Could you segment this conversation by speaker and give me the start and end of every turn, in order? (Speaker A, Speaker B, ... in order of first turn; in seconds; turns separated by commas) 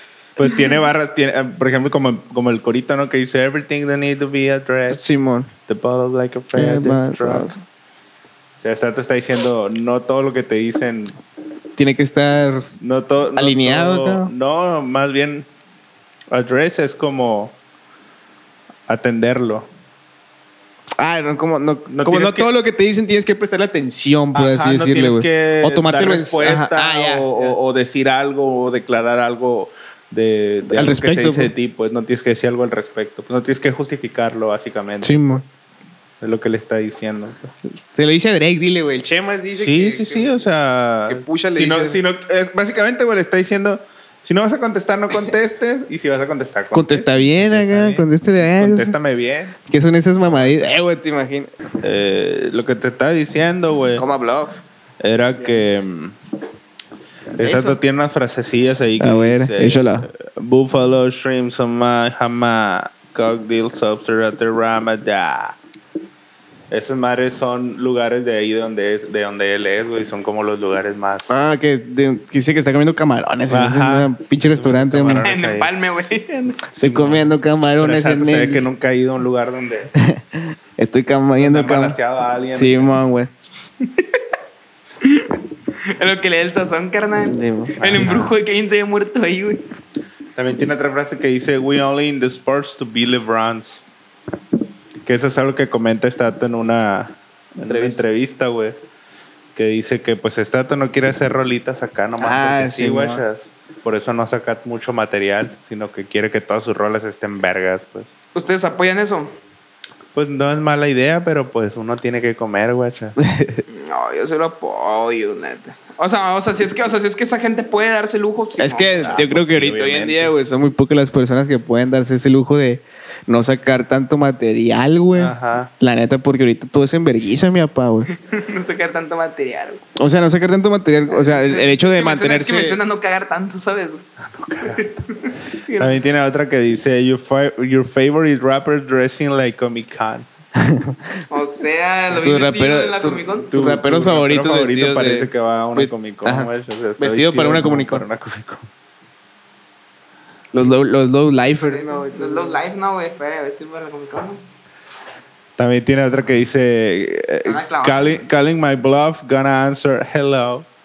Speaker A: 0.4-5.0, Speaker B: 4.9-5.5, Speaker A: 5.7-7.5, Speaker B: 6.5-7.6, Speaker A: 8.6-11.2, Speaker B: 11.8-12.7, Speaker A: 12.8-15.4, Speaker B: 13.3-14.3, Speaker A: 16.3-17.5, Speaker A: 18.9-19.7, Speaker B: 21.0-27.6, Speaker A: 21.9-22.5, Speaker A: 24.3-35.3, Speaker B: 30.7-31.5, Speaker B: 35.0-35.4, Speaker A: 36.2-37.5, Speaker B: 37.9-40.4, Speaker A: 39.5-49.5, Speaker B: 41.1-42.0, Speaker B: 46.7-49.0, Speaker B: 49.7-51.5, Speaker A: 50.2-50.6, Speaker A: 51.8-54.0, Speaker B: 53.9-54.6, Speaker A: 55.0-56.1, Speaker B: 57.4-57.8, Speaker A: 57.4-65.5, Speaker B: 59.0-60.1, Speaker A: 66.7-71.4, Speaker B: 71.3-75.2, Speaker A: 73.5-75.7, Speaker C: 75.2-76.6, Speaker A: 76.8-79.9, Speaker B: 76.8-78.7, Speaker B: 80.0-82.0, Speaker A: 81.4-83.0, Speaker B: 82.5-83.3, Speaker C: 83.8-84.2, Speaker C: 85.0-85.4, Speaker C: 85.9-89.6, Speaker B: 87.2-88.2, Speaker A: 87.8-88.3, Speaker A: 90.3-93.8, Speaker A: 95.0-98.8, Speaker B: 97.6-98.0, Speaker A: 99.5-108.1, Speaker B: 102.2-103.2, Speaker C: 108.3-109.3, Speaker A: 110.1-113.2, Speaker B: 113.2-113.6, Speaker C: 113.7-119.3, Speaker B: 118.6-128.1, Speaker A: 118.9-120.3, Speaker A: 125.1-125.7, Speaker C: 128.1-129.8, Speaker B: 129.9-132.8, Speaker C: 131.1-134.0, Speaker A: 134.3-134.8, Speaker C: 134.6-136.0, Speaker A: 135.8-140.3, Speaker B: 140.6-141.1, Speaker C: 141.3-143.5, Speaker B: 142.1-148.0, Speaker A: 143.5-148.7, Speaker B: 150.5-152.6, Speaker C: 151.7-154.4, Speaker A: 155.6-160.7, Speaker C: 157.4-158.2